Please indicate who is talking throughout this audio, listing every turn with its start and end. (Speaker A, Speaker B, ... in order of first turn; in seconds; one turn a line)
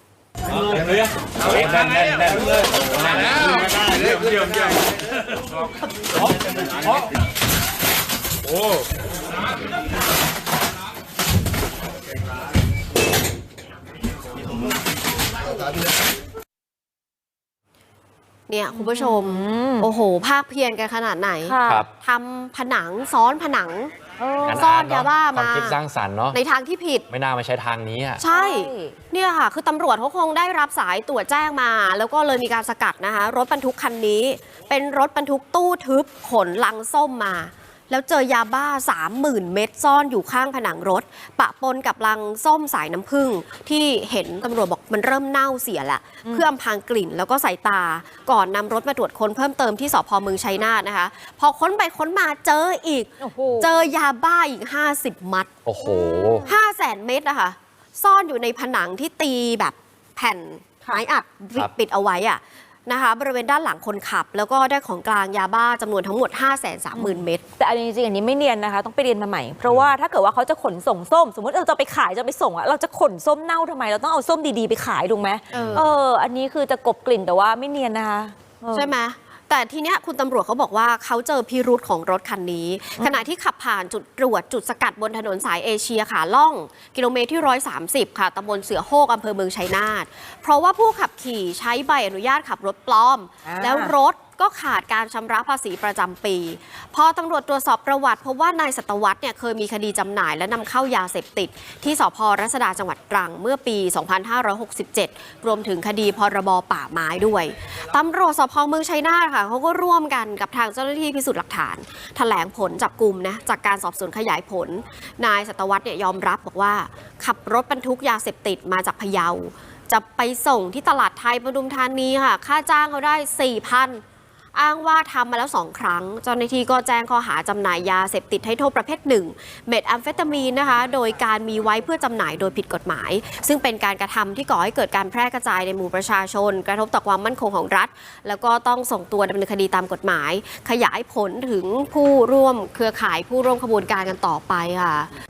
Speaker A: 1.5-2.3
Speaker B: 18.5-23.9
Speaker C: 18.7-19.9
Speaker C: 21.4-21.9
Speaker C: 24.2-24.7
Speaker A: 24.4-26.4
Speaker B: 24.5-25.8
Speaker B: 26.3-27.1
Speaker A: 27.1-28.2
Speaker B: 28.2-55.5
Speaker C: 28.3-29.0
Speaker C: 53.2-53.8
Speaker A: 55.7-56.5
Speaker C: 55.8-56.5
Speaker B: 56.5-67.4
Speaker C: 67.0-78.9
Speaker A: 69.7-69.9
Speaker B: 75.5-75.9
Speaker A: 75.5-75.9
Speaker B: 78.7-124.0
Speaker C: 83.0-83.2
Speaker C: 93.5-93.9
Speaker B: 124.5-145.1